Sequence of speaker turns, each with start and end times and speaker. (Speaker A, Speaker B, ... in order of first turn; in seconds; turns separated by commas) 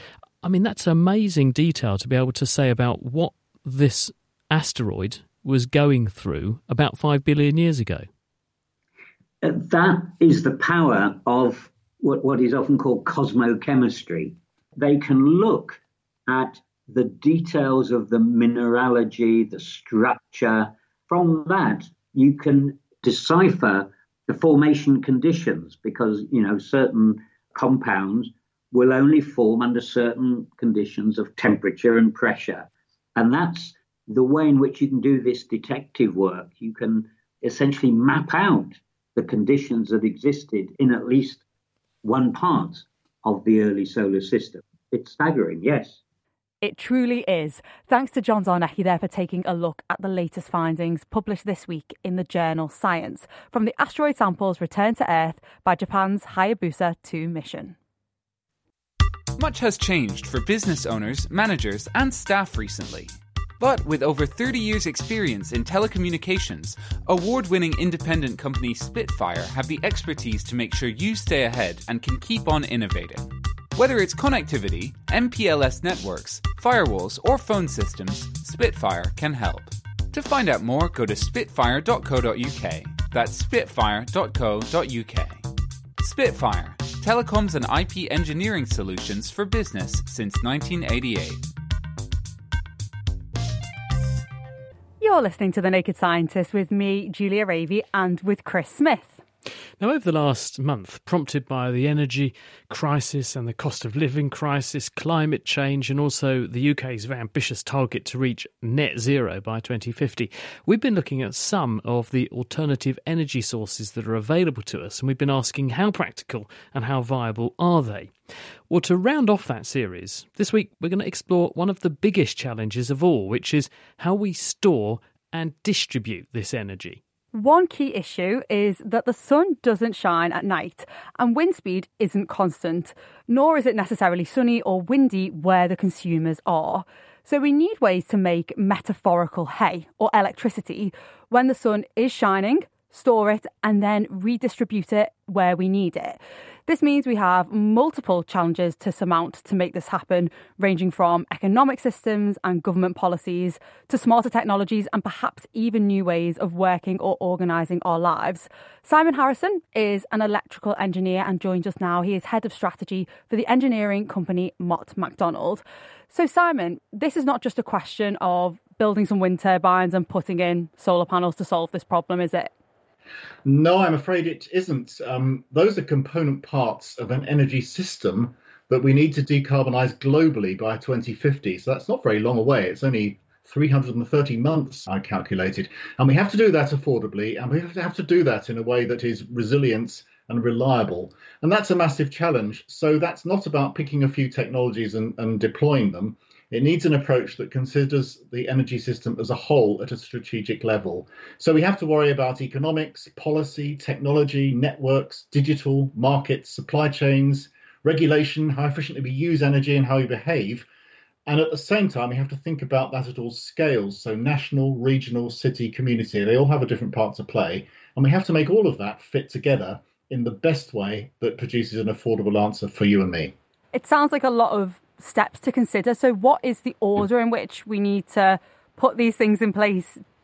Speaker A: 0.4-8.1, Speaker B: 9.4-32.6, Speaker B: 33.2-41.4, Speaker B: 42.0-46.0, Speaker C: 46.6-57.8, Speaker D: 59.4-85.4, Speaker D: 86.0-91.4, Speaker C: 95.0-99.2, Speaker A: 99.8-118.1, Speaker A: 118.7-127.0, Speaker C: 127.3-172.5, Speaker E: 173.4-210.7, Speaker E: 211.3-223.3, Speaker C: 223.7-230.0